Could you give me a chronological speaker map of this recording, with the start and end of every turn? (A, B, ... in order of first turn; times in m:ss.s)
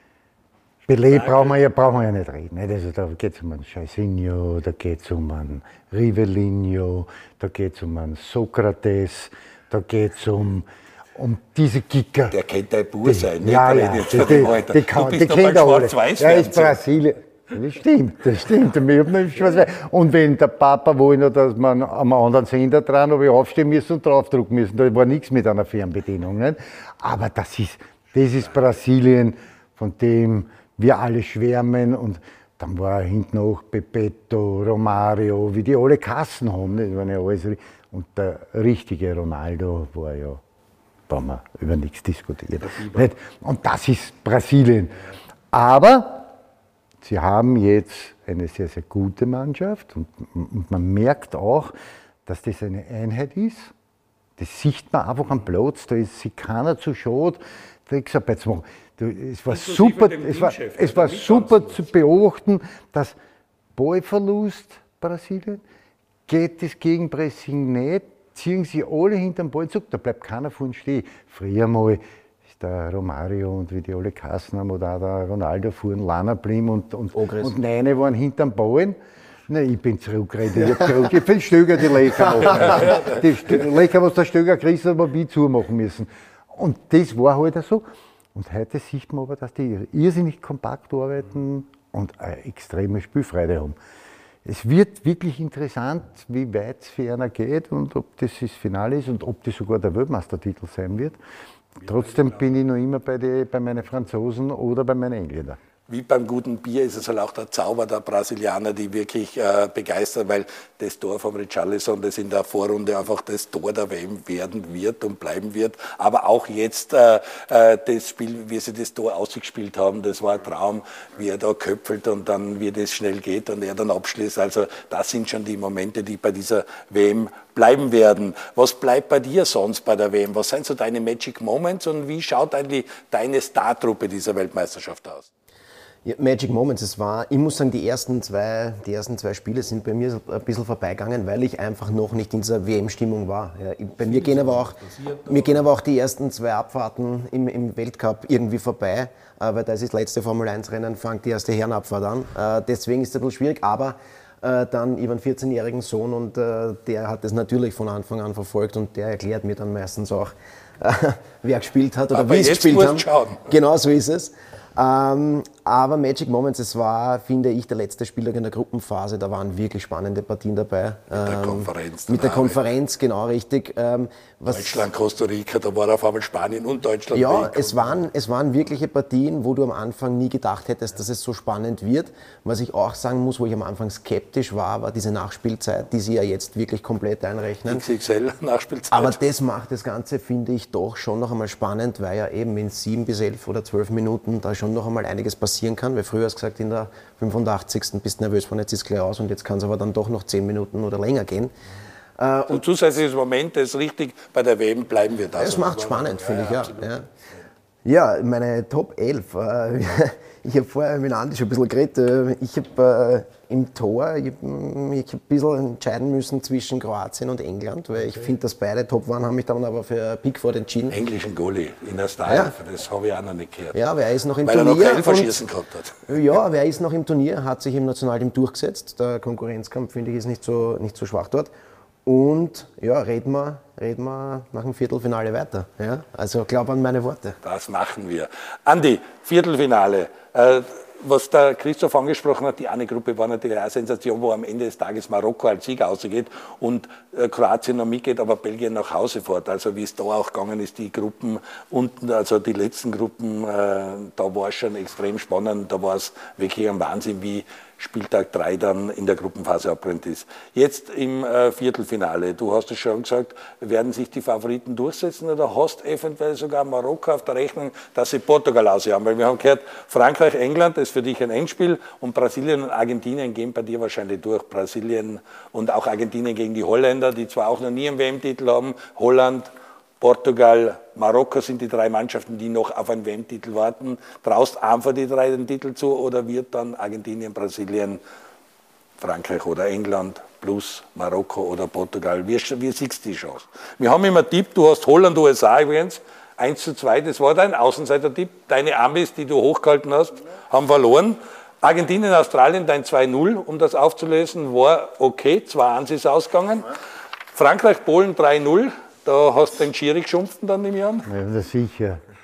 0:00.9-0:12.3 A
0:01.1-0:01.6 B
0:12.3-0:16.8 B
0:13.0-0:40.4 A
0:41.1-0:46.3 A
0:47.0-0:51.7 A
0:52.2-0:53.7 A
0:54.4-1:03.2 A
0:59.5-1:01.9 B
1:03.7-1:05.6 A
1:06.3-1:19.0 A
1:17.1-1:17.5 C
1:19.5-1:33.8 A
1:22.5-1:23.2 B
1:34.4-1:41.2 A
1:41.8-1:45.6 A
1:45.9-2:15.3 B
2:16.0-2:54.9 C
2:24.0-2:25.6 B
2:42.1-2:43.4 B
2:51.1-2:52.6 B
2:54.5-2:58.0 B
2:57.1-3:07.9 C
3:07.6-3:09.2 B
3:08.9-3:21.5 C
3:22.2-3:22.6 C
3:22.5-3:26.9 B
3:25.4-3:27.0 C
3:27.8-3:41.0 C
3:40.9-3:43.8 B
3:42.2-3:42.5 C
3:43.7-3:45.4 C
3:44.4-3:46.2 B
3:46.1-3:51.5 C
3:52.0-3:57.4 C
3:57.4-4:48.0 B
4:49.0-5:06.7 B
5:07.3-5:11.1 B
5:11.1-5:12.0 A